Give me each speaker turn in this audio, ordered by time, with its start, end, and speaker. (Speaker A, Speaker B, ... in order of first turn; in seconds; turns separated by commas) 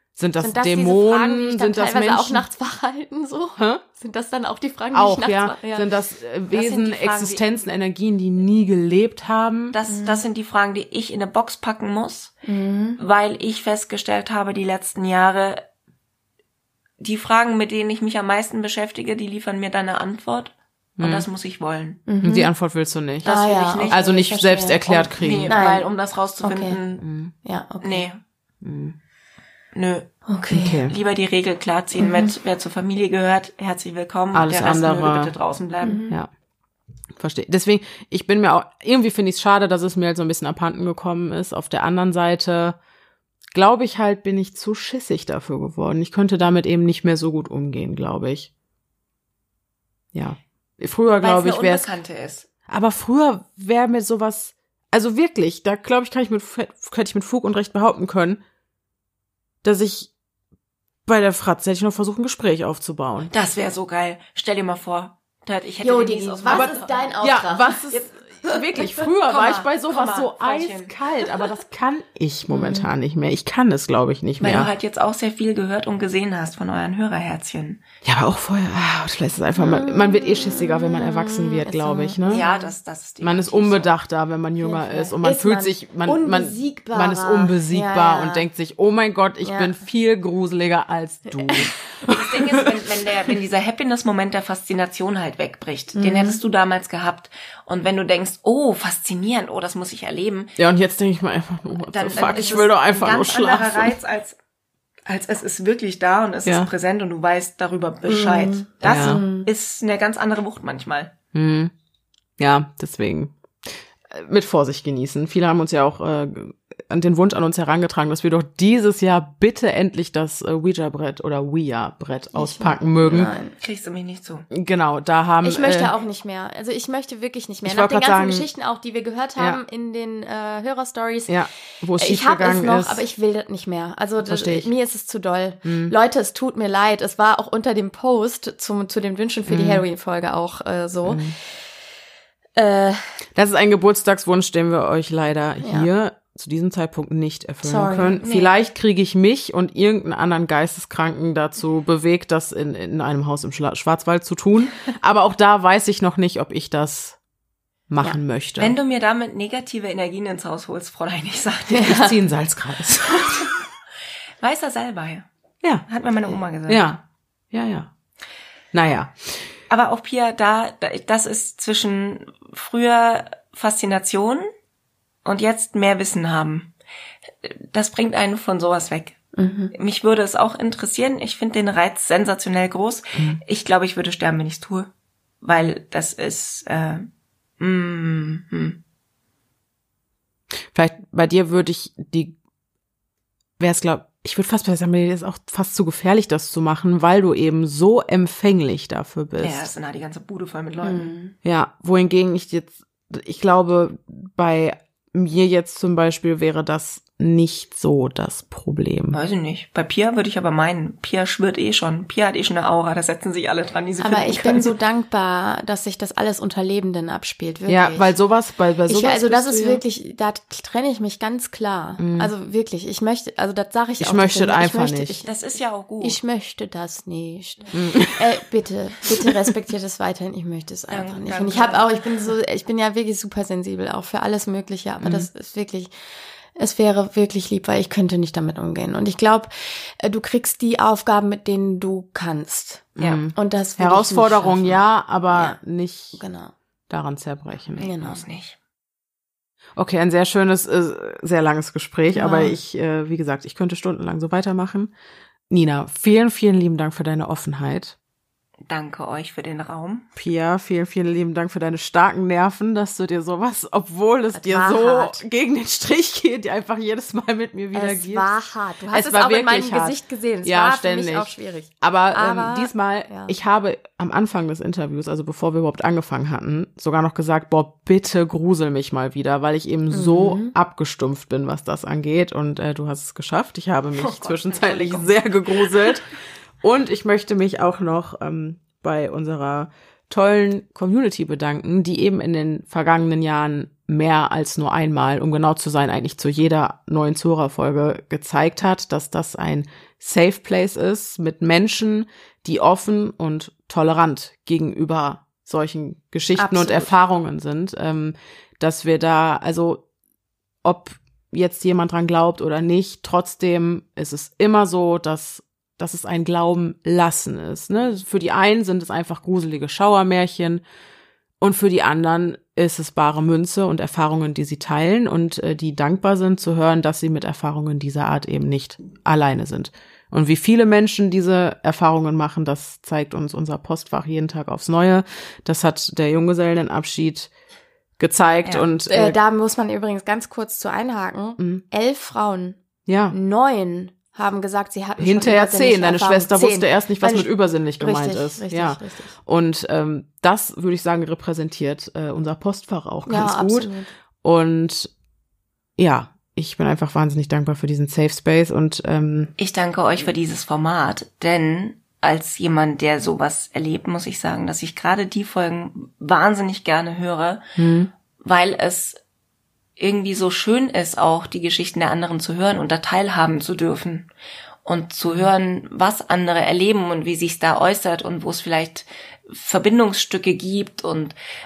Speaker A: 0.2-2.5, Speaker B: 0.4-5.9, Speaker A: 3.6-3.8, Speaker A: 4.9-9.8, Speaker C: 6.5-7.5, Speaker C: 9.7-12.3, Speaker B: 9.9-10.2, Speaker B: 12.5-13.0, Speaker C: 13.0-15.6, Speaker C: 17.0-22.0, Speaker A: 21.0-21.3, Speaker B: 22.1-22.5, Speaker A: 22.2-23.3, Speaker C: 23.2-24.0, Speaker B: 23.2-24.8, Speaker A: 23.9-25.6, Speaker C: 24.9-27.1, Speaker B: 25.5-25.9, Speaker B: 26.4-26.8, Speaker A: 27.0-27.3, Speaker B: 27.4-28.1, Speaker C: 27.8-28.2, Speaker A: 28.6-29.0, Speaker C: 29.8-30.3, Speaker B: 30.3-30.8, Speaker A: 30.5-30.9, Speaker C: 30.9-36.0, Speaker B: 32.0-32.3, Speaker A: 34.3-35.3, Speaker B: 35.8-36.1, Speaker A: 37.1-42.8, Speaker A: 43.5-48.5, Speaker A: 50.1-51.9, Speaker C: 51.2-52.5, Speaker A: 52.7-58.4, Speaker A: 59.6-60.1, Speaker A: 61.0-63.3, Speaker C: 63.3-67.1, Speaker B: 65.8-67.8, Speaker A: 66.5-74.7, Speaker C: 67.9-68.3, Speaker C: 69.2-71.0, Speaker B: 72.5-72.9, Speaker C: 74.4-77.8, Speaker A: 78.0-82.5, Speaker B: 79.6-82.7, Speaker C: 82.3-83.9, Speaker A: 83.2-92.8, Speaker B: 84.6-88.5, Speaker B: 89.4-89.8, Speaker B: 91.3-91.7, Speaker C: 92.0-100.5, Speaker B: 96.0-96.4, Speaker A: 100.6-104.0, Speaker C: 101.9-104.4, Speaker B: 102.2-102.6, Speaker C: 105.1-111.1, Speaker B: 108.1-109.5, Speaker A: 108.8-109.2, Speaker A: 111.3-111.7, Speaker A: 112.4-123.3, Speaker B: 122.3-123.5, Speaker C: 123.6-124.5, Speaker A: 124.5-125.9, Speaker B: 125.4-131.4, Speaker A: 127.7-128.5, Speaker A: 131.3-133.0, Speaker B: 132.0-141.3, Speaker A: 134.2-134.7, Speaker A: 135.7-135.9, Speaker A: 139.5-139.8, Speaker A: 141.1-141.4, Speaker B: 142.6-143.2, Speaker A: 143.3-157.2, Speaker B: 145.6-145.9, Speaker B: 147.6-148.2, Speaker C: 148.2-148.5, Speaker A: 157.9-158.8, Speaker C: 158.6-162.2, Speaker B: 161.7-162.1, Speaker A: 161.8-163.5, Speaker C: 163.2-163.5, Speaker C: 164.4-165.3, Speaker C: 165.9-166.9, Speaker A: 166.7-167.0, Speaker A: 167.5-167.9, Speaker A: 168.7-169.5, Speaker C: 169.7-174.5, Speaker C: 175.2-176.7, Speaker C: 177.4-179.2, Speaker B: 179.3-179.7, Speaker C: 179.7-184.9, Speaker C: 185.4-187.1, Speaker C: 187.6-188.8, Speaker A: 190.7-192.3, Speaker A: 193.6-199.7, Speaker C: 199.4-201.1, Speaker B: 200.8-201.3, Speaker A: 201.4-209.2, Speaker C: 209.1-214.8, Speaker B: 214.0-218.1, Speaker A: 217.7-219.8, Speaker B: 218.9-225.3, Speaker A: 222.0-222.3, Speaker A: 224.0-225.2, Speaker C: 225.2-226.2, Speaker B: 226.0-235.9, Speaker A: 227.7-228.2, Speaker C: 230.9-232.0, Speaker A: 235.0-235.3, Speaker B: 236.6-244.8, Speaker A: 243.0-246.2, Speaker B: 245.3-245.6, Speaker B: 246.2-246.5, Speaker A: 246.9-247.9, Speaker C: 247.7-248.6, Speaker B: 247.8-248.2, Speaker A: 249.8-254.9, Speaker B: 252.1-252.6, Speaker A: 255.5-257.9, Speaker C: 258.7-260.1, Speaker A: 260.2-268.3, Speaker B: 264.3-265.2, Speaker B: 267.7-273.3, Speaker A: 268.9-286.1, Speaker B: 279.9-280.5, Speaker C: 284.0-285.7, Speaker A: 286.6-309.9, Speaker B: 306.4-306.9, Speaker A: 310.6-320.6, Speaker A: 321.4-337.3, Speaker A: 338.0-339.2, Speaker B: 338.9-342.6, Speaker A: 341.4-341.6, Speaker A: 342.9-343.2, Speaker B: 343.1-349.1, Speaker A: 345.0-353.7, Speaker B: 353.1-353.9, Speaker A: 354.2-354.9, Speaker A: 355.8-359.3, Speaker C: 359.4-367.4, Speaker A: 367.6-367.9, Speaker C: 368.2-369.0, Speaker C: 369.8-374.1, Speaker C: 374.6-381.1